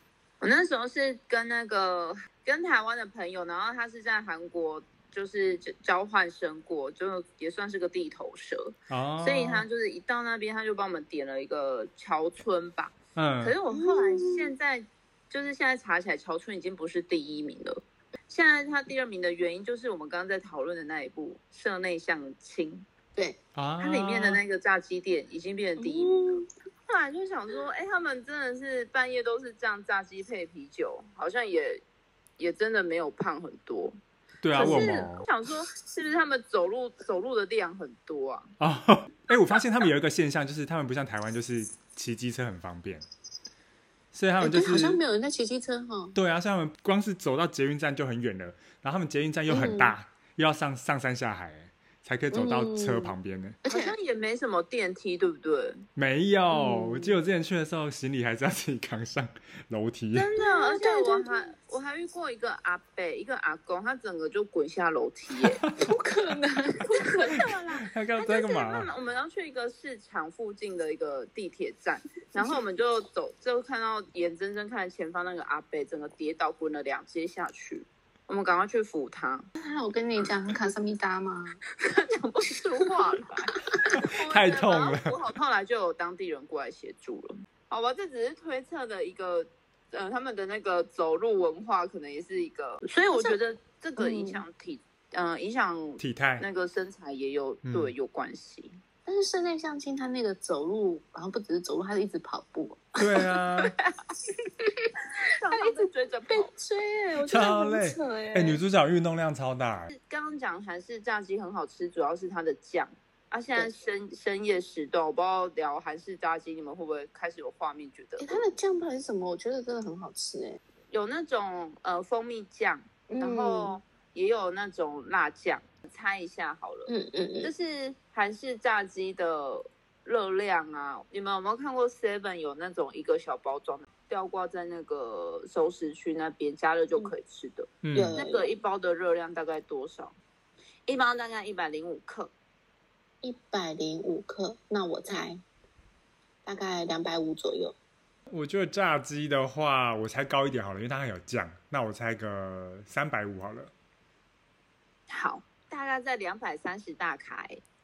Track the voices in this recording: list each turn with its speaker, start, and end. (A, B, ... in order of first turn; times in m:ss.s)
0:00.4-0:22.9 A
0:08.9-0:09.6 B
0:13.2-0:13.5 B
0:13.7-0:14.5 C
0:23.5-0:24.4 B
0:23.8-0:31.8 A
0:25.8-0:26.5 C
0:32.4-0:34.0 A
0:34.4-0:35.2 B
0:34.5-0:38.5 A
0:34.6-0:35.0 C
0:38.6-0:43.0 B
0:44.1-0:45.0 B
0:44.4-0:46.2 C
0:46.1-0:53.6 B
0:49.5-0:49.9 C
0:52.3-0:53.9 C
0:53.7-0:55.8 A
0:56.0-1:00.3 B
0:56.5-0:57.2 C
1:00.1-1:05.6 A
1:00.4-1:01.5 C
1:05.4-1:05.7 B
1:05.8-1:07.4 C
1:06.8-1:19.5 A
1:07.3-1:08.9 B
1:19.6-1:21.6 C
1:21.8-1:38.8 A
1:23.8-1:25.1 B
1:33.1-1:33.4 C
1:34.0-1:34.4 C
1:36.0-1:36.4 B
1:37.6-1:37.9 B
1:39.0-1:43.4 C
1:43.0-1:43.7 B
1:44.4-1:44.9 C
1:45.2-1:46.5 A
1:45.5-1:48.6 C
1:47.3-1:49.9 B
1:49.9-1:58.4 A
1:58.2-2:00.6 C
2:00.9-2:06.9 A
2:03.1-2:03.8 C
2:06.9-2:07.5 C
2:07.4-2:20.1 A
2:17.8-2:18.2 B
2:17.9-2:18.5 C
2:20.9-2:22.3 A
2:23.2-2:25.4 C
2:26.4-2:27.8 C
2:28.3-2:33.7 B
2:35.1-2:37.6 A